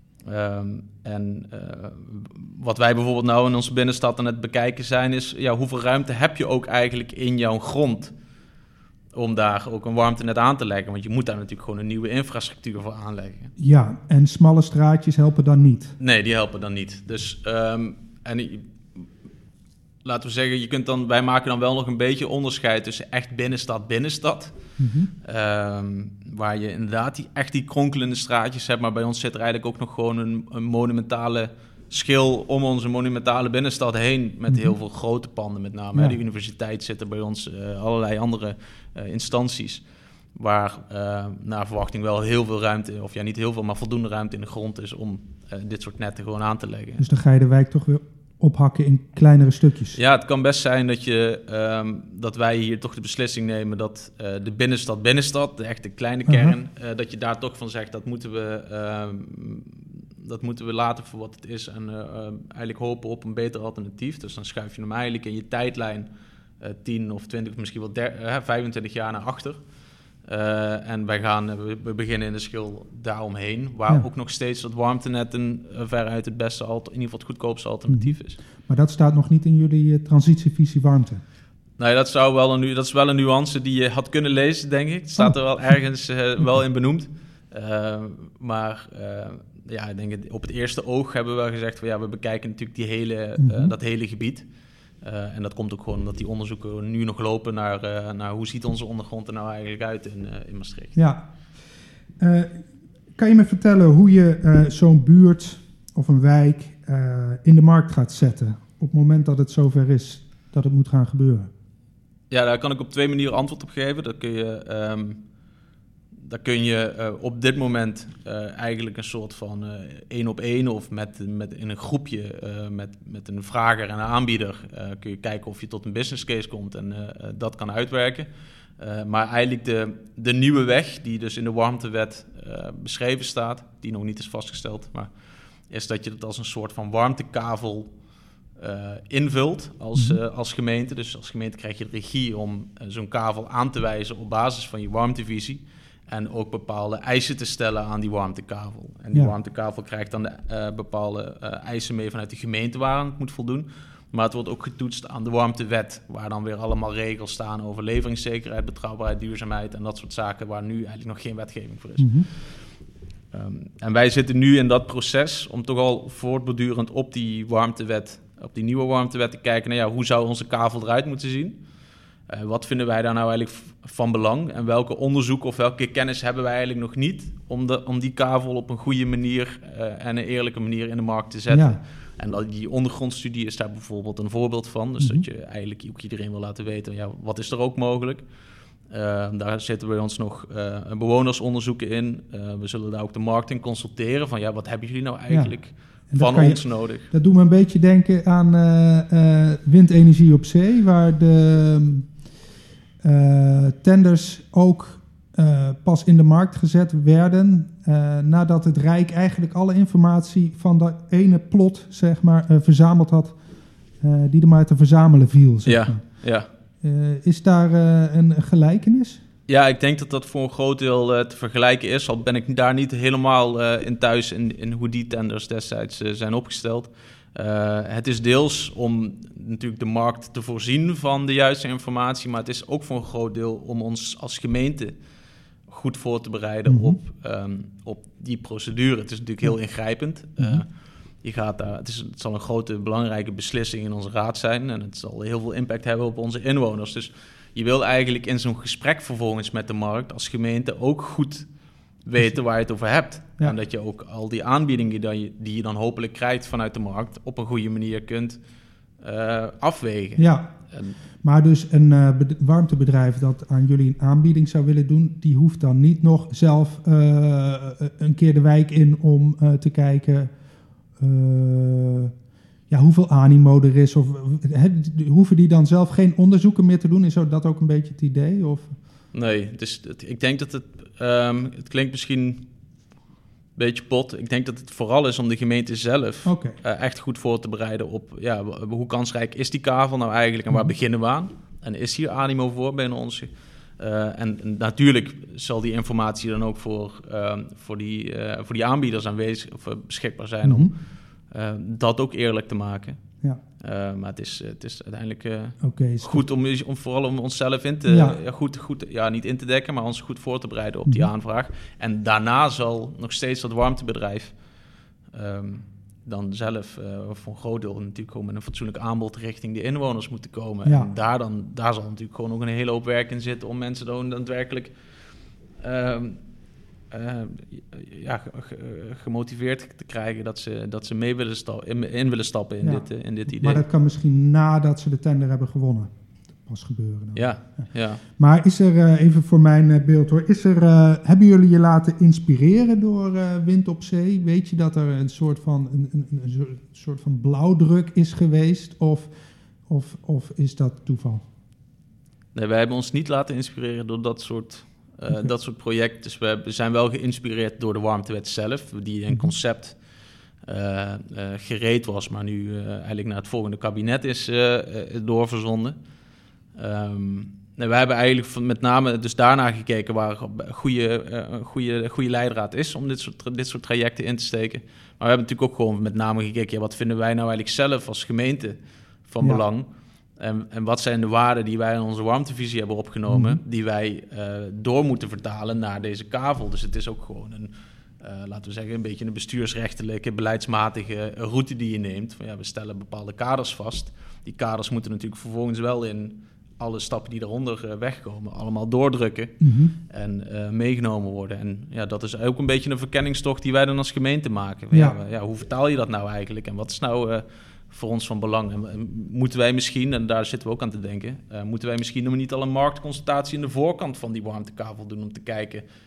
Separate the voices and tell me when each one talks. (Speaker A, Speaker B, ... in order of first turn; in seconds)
Speaker A: 0.2-8.1, 9.1-13.5, 16.0-19.1, 20.0-24.6, 25.2-47.0, 49.9-69.6, 70.2-78.4, 81.8-94.5, 95.0-101.0, 112.3-115.2, 116.2-135.1, 135.7-137.9, 138.6-162.6, 163.3-171.6, 172.3-188.3, 188.8-197.1, 215.6-216.5, 219.5-234.9, 235.7-258.4, 259.0-261.0, 279.1-282.5, 283.6-314.4, 315.1-324.8, 325.6-326.2, 326.9-333.6, 337.1-338.0, 352.3-359.8, 360.4-365.8, 366.5-415.6
Speaker B: 13.6-15.9, 24.8-25.1, 34.5-34.8, 47.0-50.0, 56.3-56.5, 77.9-81.2, 85.2-85.7, 93.4-93.7, 101.0-101.4, 102.2-111.5, 139.9-140.2, 162.0-162.3, 181.5-181.8, 195.3-202.2, 203.0-213.4, 213.9-219.2, 236.7-237.0, 252.2-252.4, 260.2-270.3, 270.9-272.1, 272.7-278.8, 286.2-286.6, 300.4-300.7, 305.6-306.2, 307.9-308.2, 310.8-311.1, 320.6-320.9, 332.6-349.1, 349.6-351.2, 383.1-383.4, 399.4-399.8, 404.7-405.0